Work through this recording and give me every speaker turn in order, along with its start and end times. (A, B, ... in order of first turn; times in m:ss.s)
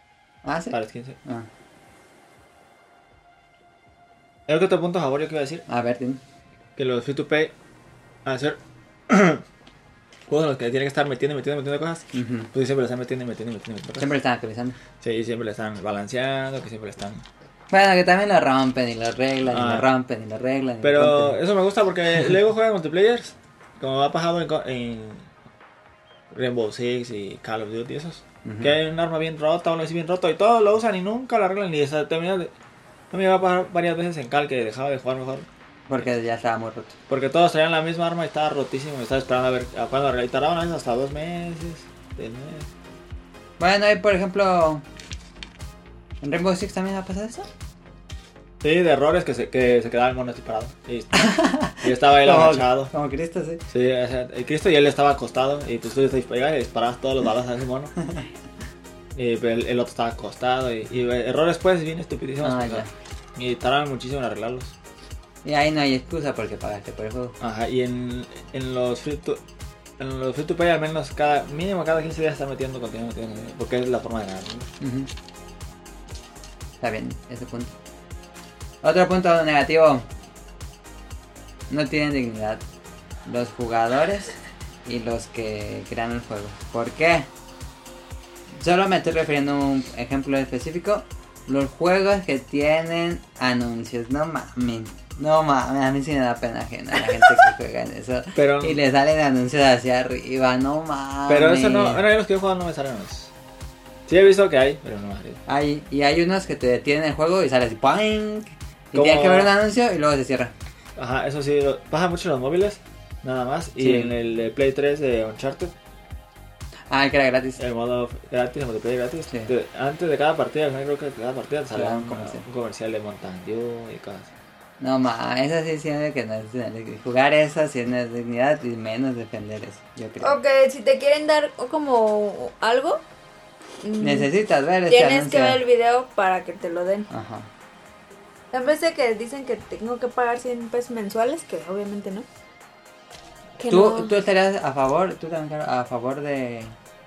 0:00.4-0:01.5 A
0:00.7-0:01.2 B
0:04.5-0:05.6 B
0:05.7-0:06.2 A
0:06.8-0:07.5 B
0:08.2-0:08.6 B
0:09.1-0:09.4 B
0:10.3-0:14.1 B
0:12.1-0:12.5 A
0:14.0-0:14.8 A
0:15.0-0:17.2 B
0:17.7-0:21.4 A
0:19.5-0:19.9 B
0:20.8-0:25.3 B
0:26.3-0:32.5 B
0:28.4-0:28.8 A
0:33.1-0:35.5 B
0:35.9-0:37.0 A
0:37.1-0:42.7 B
0:43.6-0:44.8 A
0:46.2-0:47.5 A
0:48.6-0:52.9 B
0:51.2-0:53.6 A
0:53.7-0:58.0 B
0:59.2-1:04.7 B
1:02.4-1:02.9 A
1:05.4-1:07.4 A
1:07.4-1:09.4 B
1:10.0-1:14.7 B
1:14.8-1:15.1 A
1:16.8-1:17.8 A
1:18.8-1:20.1 A
1:21.7-1:22.6 A
1:23.2-1:24.3 A
1:24.8-1:27.3 A
1:28.5-1:42.0 A
1:38.4-1:38.8 B
1:41.3-1:43.3 B
1:44.1-1:45.4 B
1:45.5-1:50.5 A
1:48.9-1:49.5 B
1:51.0-1:55.7 B
1:53.8-1:54.1 A
1:56.9-1:57.6 A
1:57.6-2:04.3 B
2:01.7-2:02.4 A
2:04.8-2:10.4 A
2:10.2-2:13.0 C
2:13.8-2:14.3 C
2:14.0-2:15.6 A
2:14.9-2:17.1 C
2:17.1-2:17.5 A
2:18.5-2:22.3 C
2:23.6-2:24.1 C
2:23.7-2:26.8 A